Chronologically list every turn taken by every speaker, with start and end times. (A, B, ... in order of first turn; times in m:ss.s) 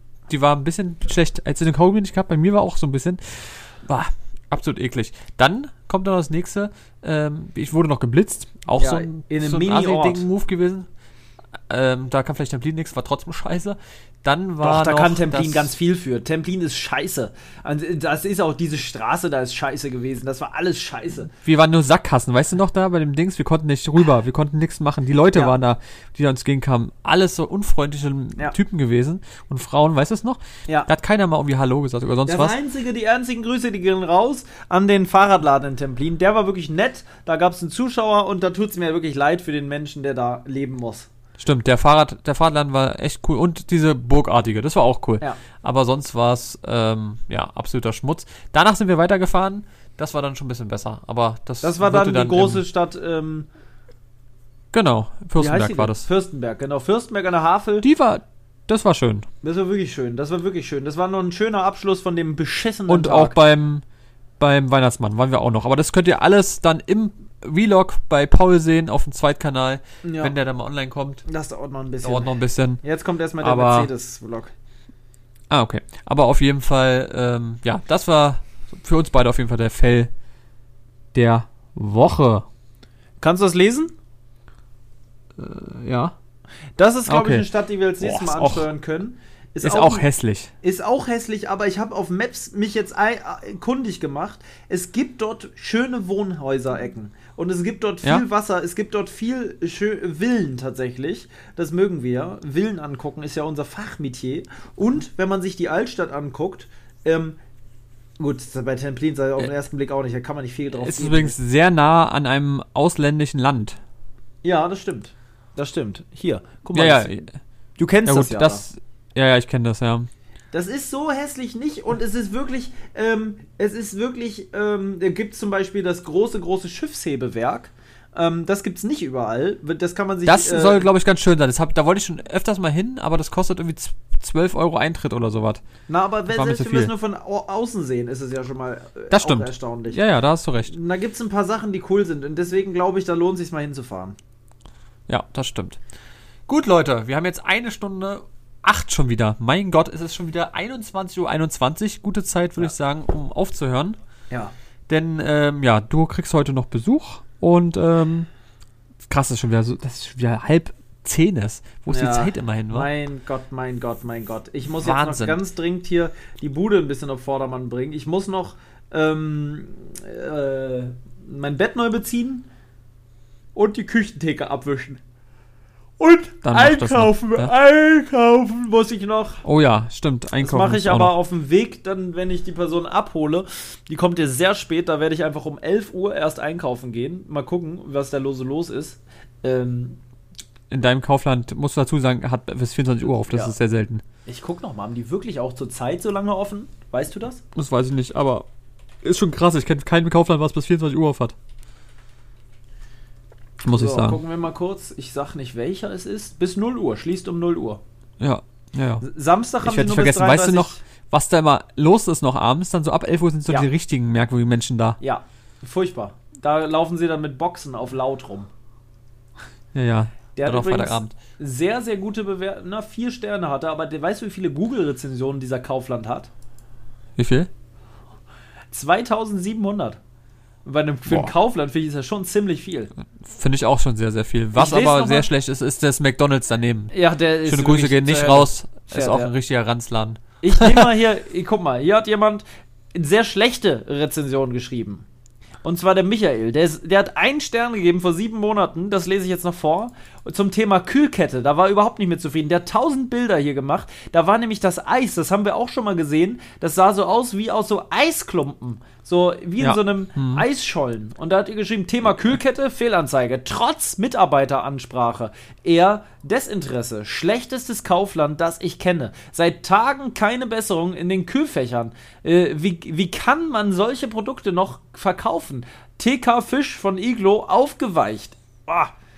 0:00.3-0:10.9 A
0:08.8-0:10.3 B
0:11.7-0:15.7 A
0:14.6-0:21.3 B
0:21.4-0:32.6 A
0:32.3-0:41.1 B
0:41.4-0:52.6 A
0:51.6-0:53.5 B
0:54.7-0:56.1 A
0:55.4-0:57.9 B
0:57.8-0:59.3 A
0:59.4-1:03.4 B
1:02.9-1:03.8 A
1:04.4-1:11.2 A
1:10.0-1:10.3 B
1:11.3-1:14.5 B
1:12.0-1:12.8 A
1:13.4-1:13.9 A
1:15.5-1:20.1 A
1:21.1-1:22.5 A
1:23.2-1:23.9 B
1:25.4-1:26.2 A
1:26.8-1:30.0 B
1:27.1-1:27.5 A
1:28.0-1:28.7 A
1:29.6-1:30.5 A
1:30.6-1:47.4 B
1:48.2-1:51.4 B
1:50.7-1:53.8 A
1:54.4-1:57.2 B
1:56.7-1:57.4 A
1:57.8-1:58.6 B
1:58.0-2:00.1 A
2:00.5-2:10.9 B
2:10.2-2:15.6 A
2:15.9-2:20.0 B
2:16.3-2:16.9 A
2:19.1-2:20.7 A
2:20.7-2:24.2 B
2:25.1-2:25.8 A
2:26.5-2:34.0 A
2:34.9-2:38.3 A
2:39.1-2:42.9 A
2:41.9-2:52.5 B
2:44.8-2:45.4 A
2:53.6-2:55.0 B
2:56.0-2:59.4 B
2:56.4-2:57.5 A
2:59.4-3:01.1 A
3:00.4-3:10.0 B
3:10.7-3:14.0 A
3:14.3-3:17.4 B
3:17.6-3:18.5 A
3:19.0-3:21.4 A
3:23.6-3:24.2 A
3:23.7-3:27.8 B
3:28.2-3:29.1 A
3:29.0-3:30.8 B
3:29.6-3:35.0 A
3:35.0-3:38.5 B
3:39.7-3:41.2 A
3:40.4-3:46.3 B
3:47.2-3:47.5 A
3:48.7-3:50.0 B
3:50.6-3:52.9 B
3:53.1-3:56.9 A
3:54.6-3:55.3 B
3:56.9-3:59.3 B
3:57.4-4:00.9 A
4:00.4-4:05.0 B
4:05.6-4:38.9 B
4:19.6-4:20.4 A